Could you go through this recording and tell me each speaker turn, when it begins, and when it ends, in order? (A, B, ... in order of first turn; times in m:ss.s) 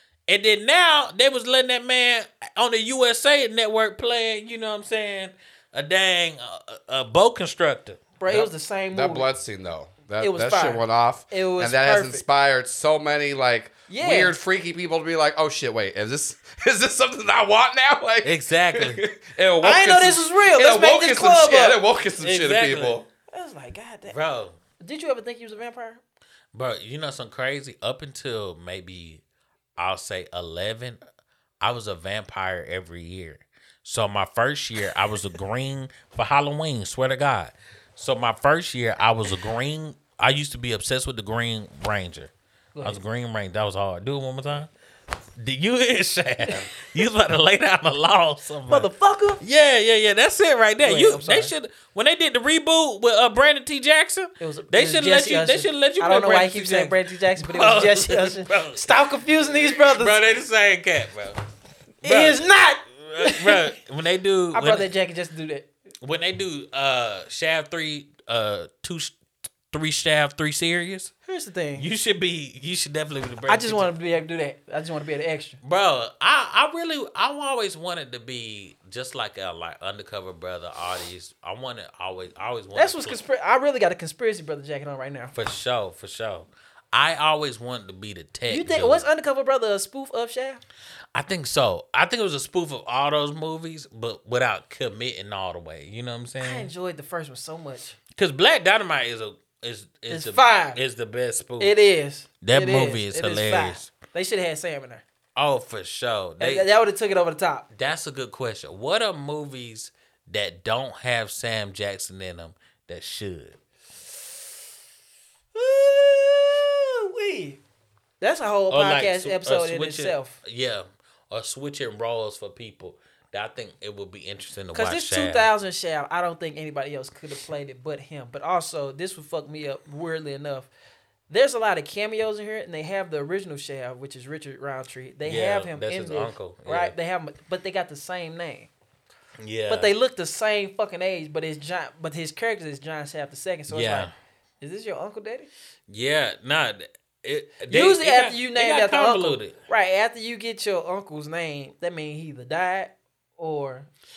0:00.3-0:08.5 A
0:08.2-0:09.3 B
0:08.9-0:23.1 C
0:10.2-0:12.2 B
0:13.9-0:14.4 B
0:18.2-0:19.0 A
0:19.6-0:21.8 B
0:22.2-0:23.0 A
0:23.3-0:24.2 B
0:24.1-0:24.6 A
0:24.8-0:26.0 B
0:26.5-0:29.2 A
0:29.8-0:31.0 A
0:31.6-0:44.7 A
0:42.8-0:43.0 B
0:45.4-0:48.9 A
0:48.7-0:49.4 B
0:49.4-0:59.0 A
0:50.8-0:51.5 B
0:54.4-1:00.2 B
0:59.6-1:01.4 A
1:02.0-1:02.5 A
1:02.0-1:03.7 B
1:03.0-1:04.9 A
1:04.5-1:05.7 B
1:06.0-1:09.1 A
1:09.7-1:11.1 A
1:11.3-1:11.9 B
1:11.8-1:13.9 A
1:13.5-1:15.6 B
1:15.6-1:23.2 A
1:22.8-1:25.3 B
1:25.3-1:29.0 A
1:28.5-1:30.6 B
1:31.1-1:36.7 A
1:36.4-1:38.0 B
1:38.2-1:41.8 A
1:40.1-1:40.8 B
1:41.6-1:45.0 B
1:42.4-1:43.9 A
1:45.4-1:46.7 A
1:46.4-1:47.7 B
1:47.7-1:53.6 A
1:55.6-1:57.6 B
1:58.2-2:00.4 B
1:58.7-2:05.5 A
2:04.7-2:10.7 B
2:11.3-2:18.7 B
2:15.3-2:16.9 A
2:19.4-2:19.9 A
2:19.7-2:25.5 B
2:23.7-2:24.1 A
2:25.9-2:29.6 A
2:27.7-2:33.9 B